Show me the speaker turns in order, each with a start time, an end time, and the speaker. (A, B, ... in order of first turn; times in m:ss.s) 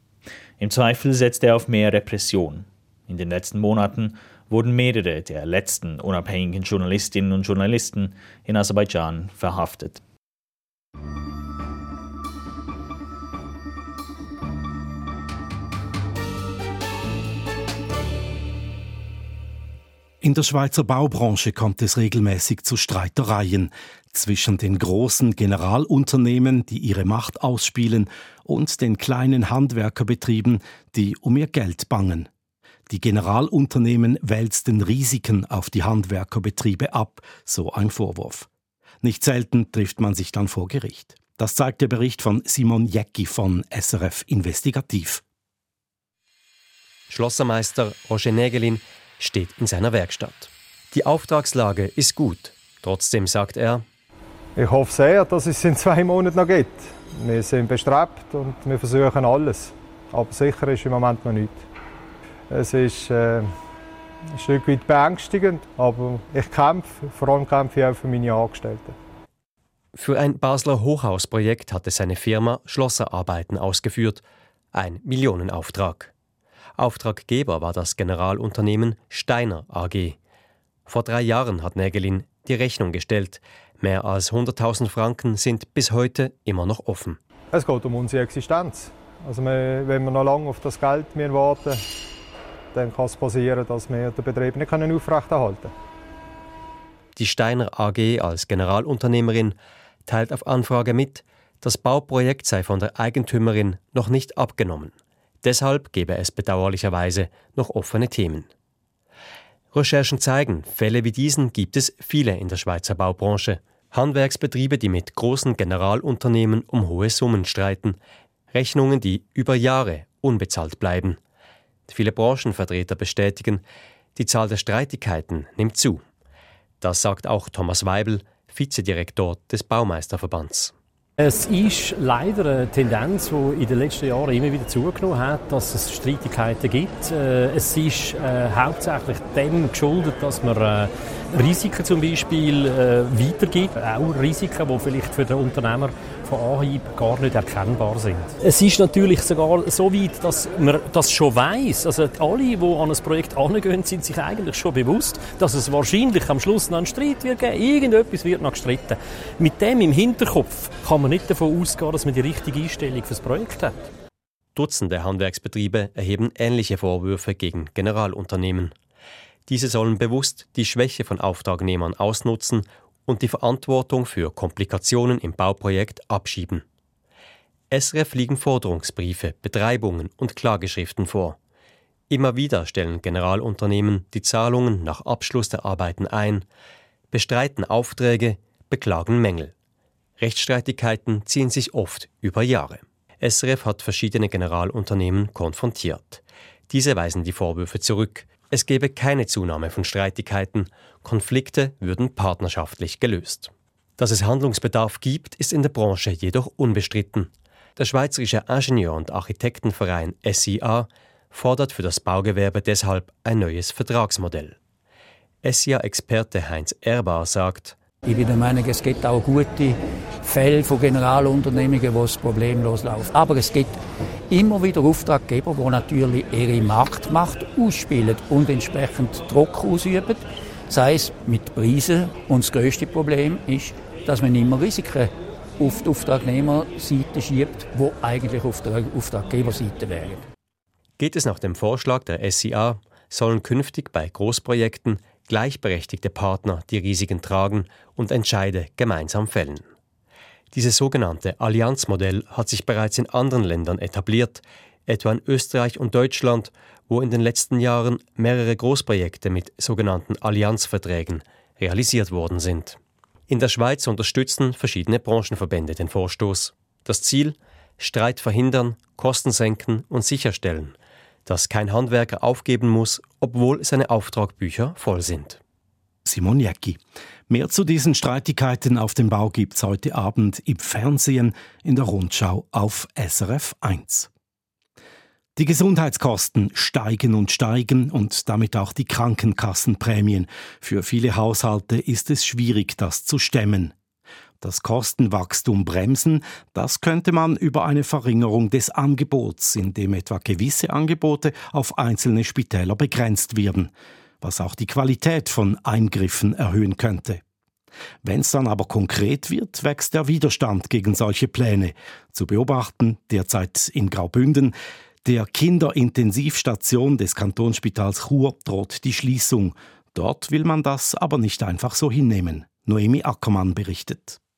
0:00.6-0:10.0 A
0:20.2-0:32.3 B
0:32.9-0:38.5 B
0:39.0-0:45.2 B
0:47.1-0:53.8 C
0:54.6-1:01.6 D
1:02.5-1:03.5 D
1:04.4-1:09.0 D
1:09.9-1:14.2 C
1:14.7-1:16.1 C
1:16.8-1:20.2 C
1:20.9-1:27.2 C
1:27.5-1:31.8 D
1:32.7-1:35.7 D
1:37.2-1:48.5 C
1:49.7-1:58.0 C
1:58.5-2:01.2 C
2:01.9-2:03.6 C
2:04.1-2:06.0 C
2:06.8-2:10.7 C
2:11.2-2:43.8 E
2:44.5-2:48.7 C
2:49.5-2:56.6 C
2:57.7-3:01.4 C
3:02.1-3:06.4 C
3:07.1-3:09.5 C
3:10.2-3:34.5 C
3:35.4-3:37.8 C
3:38.0-3:43.8 F
3:44.3-4:00.2 F
4:01.0-4:09.7 C
4:10.5-4:30.7 C
4:31.2-4:35.4 C
4:36.0-4:44.1 B
4:45.4-4:53.7 B
4:54.4-5:03.7 B
5:04.2-5:07.2 B
5:08.0-5:24.2 B